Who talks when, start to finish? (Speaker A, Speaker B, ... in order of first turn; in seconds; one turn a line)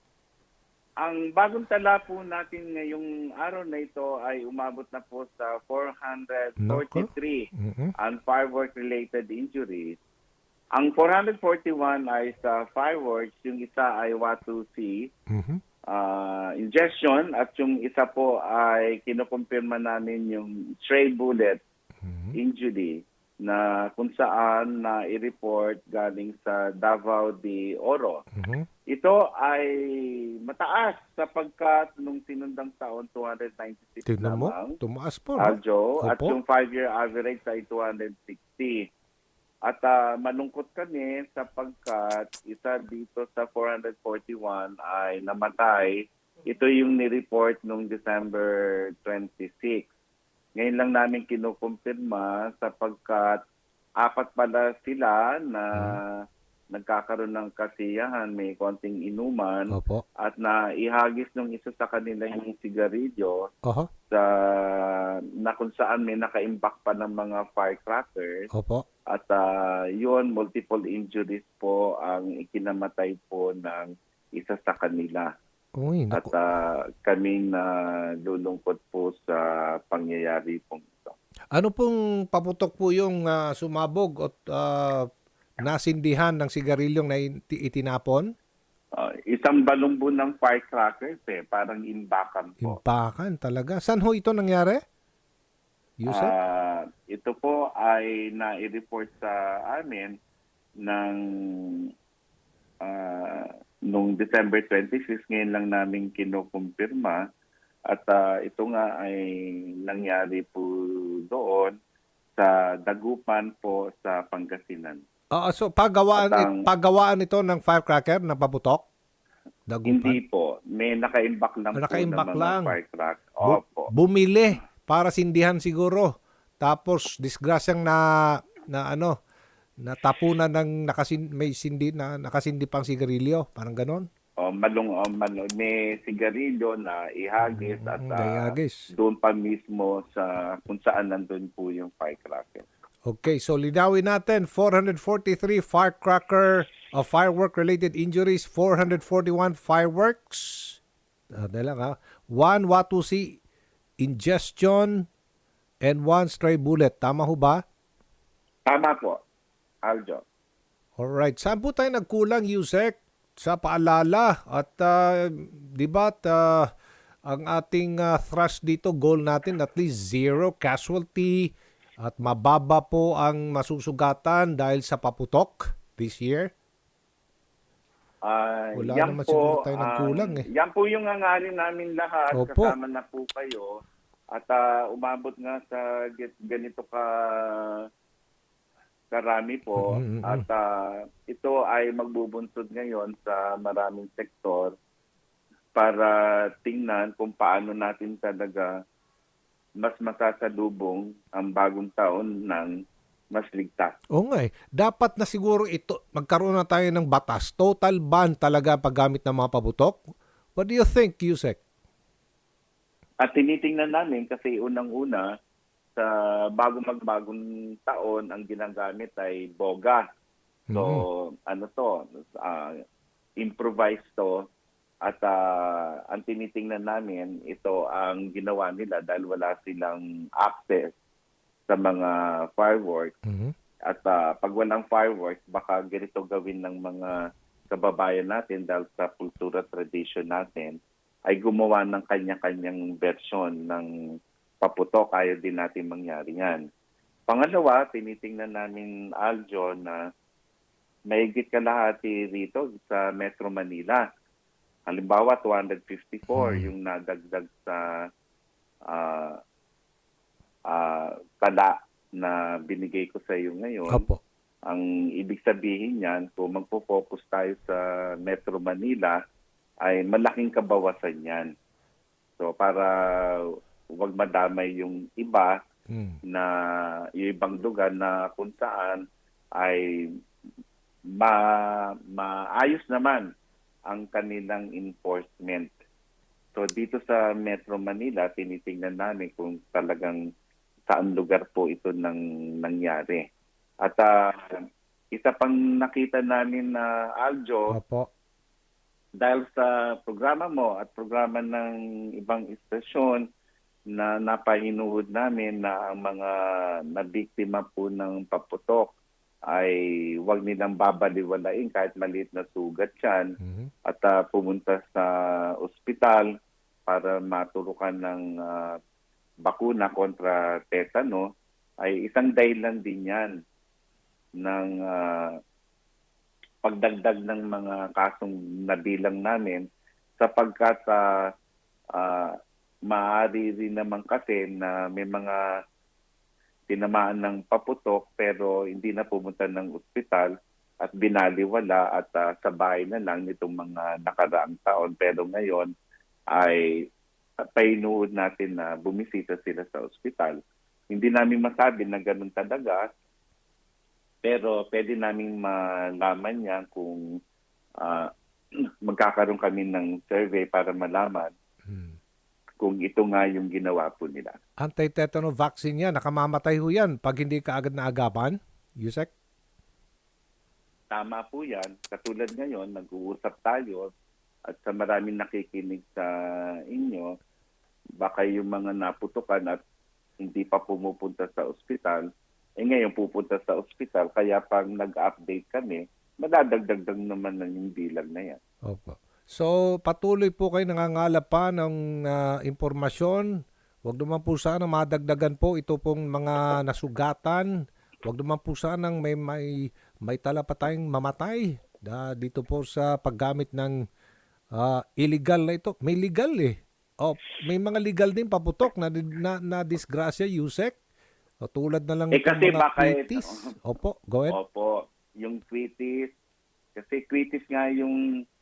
Speaker A: 1.0-10.0
Speaker B: 6.6-7.9
Speaker A: 10.8-15.1
Speaker B: 15.3-15.6
Speaker A: 15.9-21.6
Speaker B: 22.0-22.3
Speaker A: 22.3-28.2
Speaker B: 28.3-28.6
Speaker A: 28.9-34.8
Speaker B: 34.0-36.4
Speaker A: 35.4-38.9
Speaker A: 39.6-49.9
Speaker A: 50.5-53.4
Speaker A: 54.0-56.2
Speaker B: 55.7-56.0
Speaker A: 56.7-63.5
Speaker B: 59.7-60.0
Speaker A: 64.1-68.5
Speaker B: 68.5-68.8
Speaker A: 69.1-69.5
Speaker A: 70.0-75.3
Speaker B: 75.8-76.3
Speaker A: 76.1-77.7
Speaker A: 78.2-81.2
Speaker B: 81.5-85.1
Speaker B: 85.6-88.2
Speaker A: 89.0-92.8
Speaker B: 92.6-94.8
Speaker B: 96.0-96.3
Speaker A: 96.1-100.1
Speaker A: 100.8-101.9
Speaker A: 102.8-107.2
Speaker A: 107.9-111.7
Speaker A: 112.4-115.0
Speaker B: 115.3-118.8
Speaker A: 116.1-116.6
Speaker B: 119.7-120.2
Speaker A: 119.9-123.9
Speaker B: 121.7-122.7
Speaker B: 123.4-126.1
Speaker B: 126.6-129.2
Speaker B: 129.8-134.1
Speaker A: 134.4-142.6
Speaker B: 137.4-138.9
Speaker B: 143.1-150.8
Speaker B: 151.4-153.4
Speaker B: 154.0-155.1
Speaker B: 155.8-157.6
Speaker A: 158.7-159.2
Speaker A: 159.8-160.2
Speaker B: 161.0-166.7
Speaker B: 167.3-176.5
Speaker A: 178.2-183.8
Speaker B: 178.8-180.4
Speaker B: 182.3-182.7
Speaker A: 184.3-187.8
Speaker A: 189.1-190.7
Speaker B: 189.8-190.4
Speaker A: 191.3-194.7
Speaker A: 195.7-198.7
Speaker A: 199.8-202.7
Speaker A: 203.3-203.9
Speaker B: 204.2-211.6
Speaker A: 213.2-215.2
Speaker A: 215.9-220.0
Speaker B: 220.7-221.0
Speaker A: 220.7-222.8
Speaker A: 223.4-224.4
Speaker A: 225.0-230.9
Speaker A: 231.7-233.2
Speaker B: 233.3-233.5
Speaker A: 233.9-237.2
Speaker A: 237.7-240.8
Speaker A: 241.3-243.9
Speaker A: 244.6-246.6
Speaker A: 247.3-250.0
Speaker A: 251.1-254.0
Speaker A: 254.9-257.9
Speaker B: 256.3-256.7
Speaker A: 258.9-259.4
Speaker A: 260.7-264.1
Speaker B: 263.9-264.2
Speaker A: 264.7-269.2
Speaker A: 269.8-271.5
Speaker A: 272.4-273.4
Speaker A: 274.0-275.6
Speaker B: 275.9-276.2
Speaker A: 276.3-279.0
Speaker A: 279.6-279.8
Speaker A: 281.2-283.3
Speaker A: 283.9-285.7
Speaker A: 286.5-290.2
Speaker A: 290.9-293.2
Speaker A: 293.8-294.6
Speaker A: 295.1-297.7
Speaker B: 297.7-298.1
Speaker A: 299.2-303.2
Speaker A: 303.9-308.9
Speaker A: 309.5-313.3
Speaker B: 313.4-313.7
Speaker A: 313.9-316.3
Speaker A: 316.9-318.8
Speaker A: 319.4-321.2
Speaker A: 321.8-323.3
Speaker A: 324.4-325.3
Speaker A: 326.6-329.6
Speaker A: 330.2-331.0
Speaker A: 331.9-332.3
Speaker A: 332.9-335.4
Speaker A: 336.7-340.3
Speaker A: 340.8-345.7
Speaker A: 346.3-346.6
Speaker A: 347.5-350.4
Speaker A: 350.9-352.9
Speaker A: 354.2-357.0
Speaker A: 357.8-358.1
Speaker A: 358.8-361.3
Speaker B: 361.7-362.0
Speaker A: 362.6-364.3
Speaker B: 364.6-369.1
Speaker A: 370.9-373.9
Speaker A: 374.5-377.1
Speaker A: 378.0-379.6
Speaker A: 380.2-382.1
Speaker A: 382.6-388.4
Speaker B: 388.7-393.3
Speaker B: 393.8-397.5
Speaker B: 398.0-403.8
Speaker B: 404.5-410.8
Speaker B: 411.4-414.4
Speaker A: 412.1-413.5
Speaker A: 414.3-416.1
Speaker A: 416.7-418.0